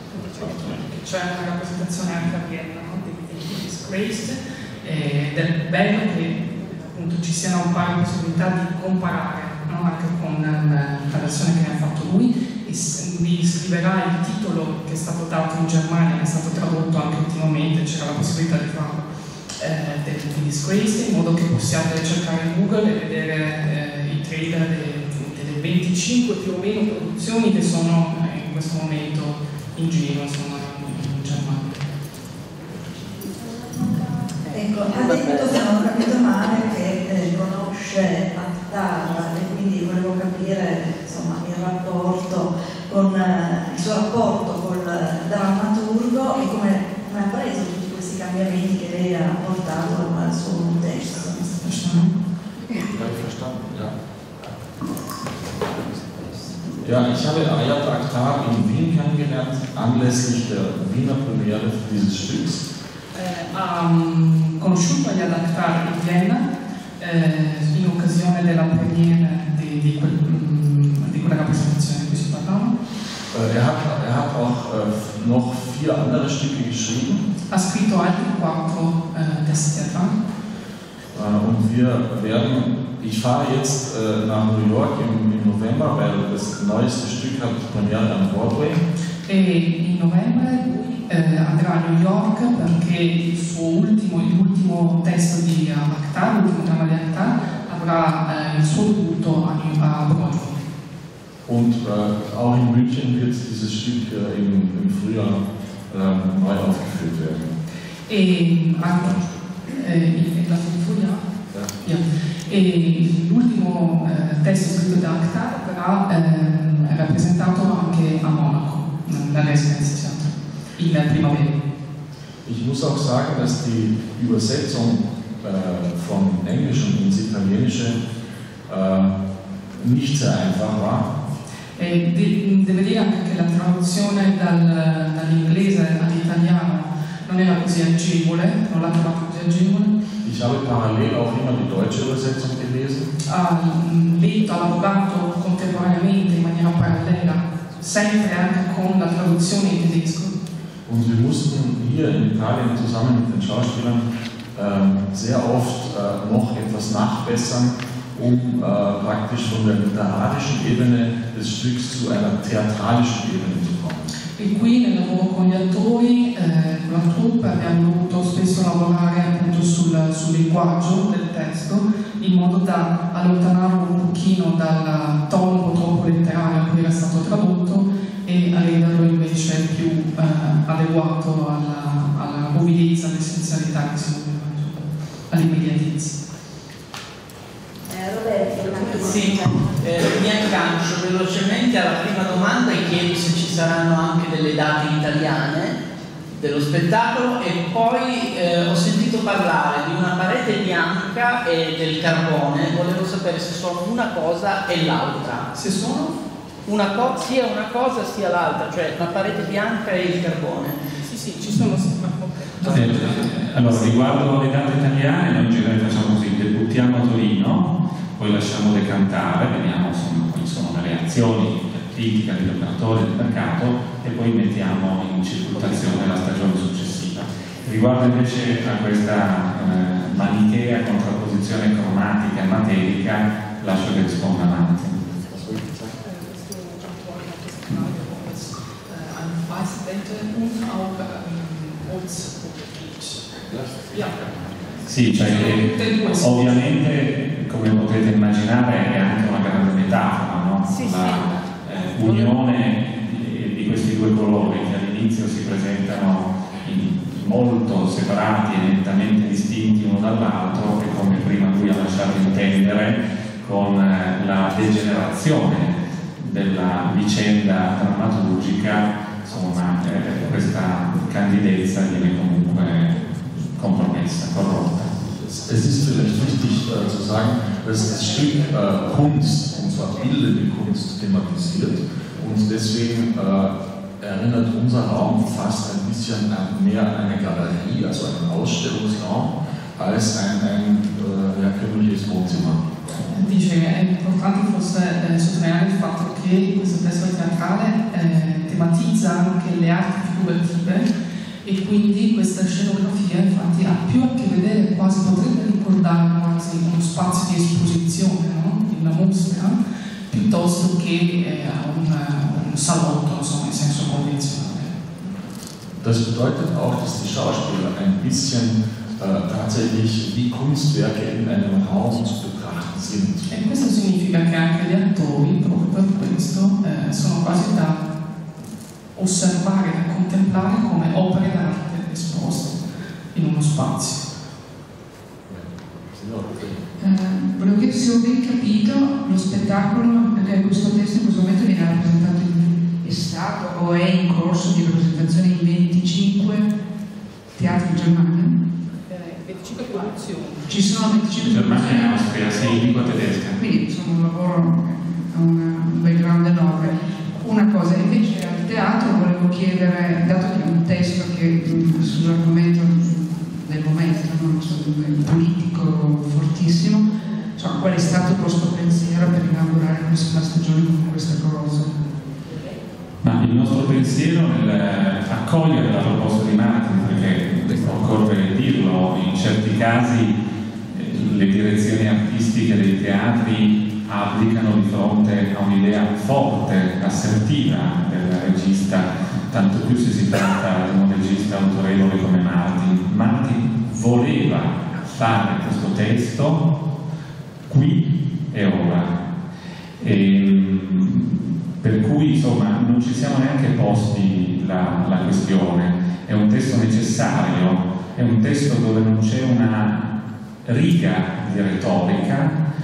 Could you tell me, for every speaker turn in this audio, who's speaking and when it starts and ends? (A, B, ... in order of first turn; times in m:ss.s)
0:00.1-0:19.0 A
0:00.4-0:00.8 B
0:19.6-0:31.7 A
0:34.5-0:51.3 C
0:51.3-0:52.1 A
0:52.9-0:53.9 B
0:56.8-1:02.7 B
1:03.2-1:12.8 A
1:13.3-1:17.3 B
1:17.5-1:20.2 A
1:21.1-1:28.8 B
1:29.3-1:40.6 A
1:41.4-1:47.6 B
1:48.1-1:49.1 A
1:48.8-1:49.3 B
1:49.7-1:51.2 A
1:51.8-2:01.6 A
2:02.4-2:08.0 B
2:08.7-2:09.1 B
2:09.8-2:11.1 B
2:11.8-2:20.0 A
2:20.2-2:23.1 B
2:23.3-2:30.4 A
2:30.9-2:44.1 B
2:44.4-3:06.2 A
3:08.9-3:15.8 D
3:16.4-3:25.5 D
3:25.5-3:26.1 A
3:26.7-3:30.8 D
3:31.0-3:33.3 A
3:32.6-3:55.0 E
3:55.3-3:56.0 B
3:56.0-4:04.1 A
4:04.9-4:34.9 E
4:05.1-4:06.6 A
4:35.3-4:52.8 B
4:53.1-5:00.9 A
5:01.4-5:09.6 A
5:10.1-5:15.1 A
5:15.8-5:23.3 B
5:23.3-5:27.8 A
5:29.0-5:32.6 A
5:33.1-5:34.0 A
5:35.3-5:36.6 B
5:36.8-5:46.5 F
5:47.4-5:48.4 F
5:48.9-5:50.4 A
5:50.5-5:52.3 F
5:51.2-5:53.4 E
5:53.4-6:06.8 F
6:07.4-6:11.8 F
6:13.0-6:20.2 E
6:20.7-6:36.5 E
6:37.5-6:39.1 E
6:39.8-6:49.9 E
6:50.4-6:52.4 E